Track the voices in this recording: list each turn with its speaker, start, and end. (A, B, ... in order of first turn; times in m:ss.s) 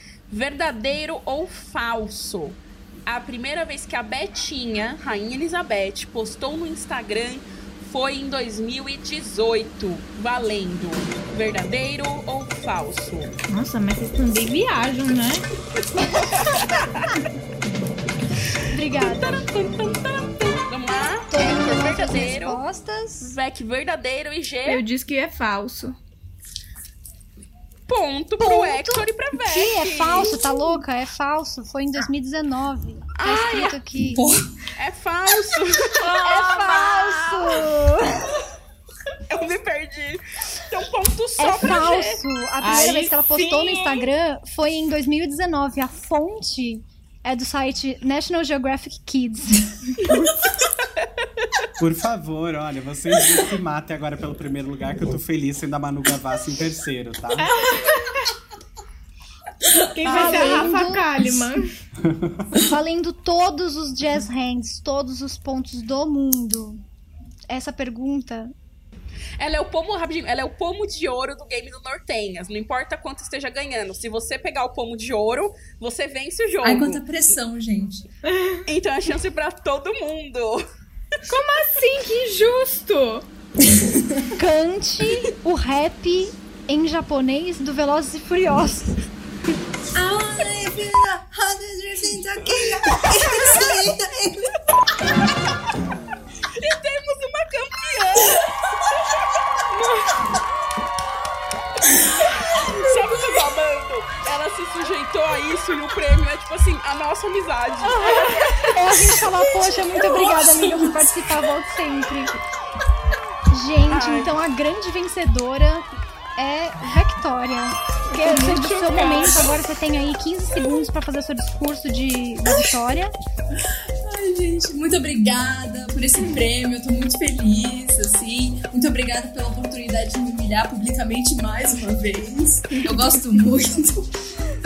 0:00.3-0:13.3 A
0:13.5-0:15.5 B
0:16.0-0:17.2 A
0:18.7-0:19.4 C
0:19.0-0:22.6 A
0:21.3-0:23.3 C
0:23.2-0:24.8 A
0:24.7-0:26.0 B
0:27.9-0:30.5 A
0:28.4-0:34.3 C
0:33.2-0:33.8 A
0:34.0-0:34.5 D
0:34.8-0:36.1 A
0:36.0-0:37.4 B
0:36.0-0:38.3 C
0:39.3-0:42.2 A
0:41.4-0:49.8 C
0:42.6-0:44.1 B
0:51.8-0:57.6 E
0:57.4-0:58.3 B
0:59.9-1:01.7 B
1:00.0-1:00.4 D
1:00.0-1:01.1 C
1:02.0-1:02.5 E
1:02.5-1:06.8 C
1:07.5-1:08.5 C
1:09.4-1:17.0 A
1:16.6-1:18.1 D
1:18.2-1:18.7 B
1:18.7-1:20.6 A
1:21.3-1:23.3 B
1:23.8-1:24.3 D
1:24.4-1:29.0 C
1:30.0-1:34.6 D
1:32.4-1:33.5 A
1:36.6-1:39.2 A
1:39.7-1:40.1 B
1:42.4-1:48.7 A
1:48.0-1:48.3 D
1:48.6-1:52.4 C
1:49.7-1:51.3 D
1:53.5-1:55.9 C
1:53.9-1:54.3 A
1:56.4-2:03.1 C
1:58.1-1:59.5 B
2:03.6-2:14.1 D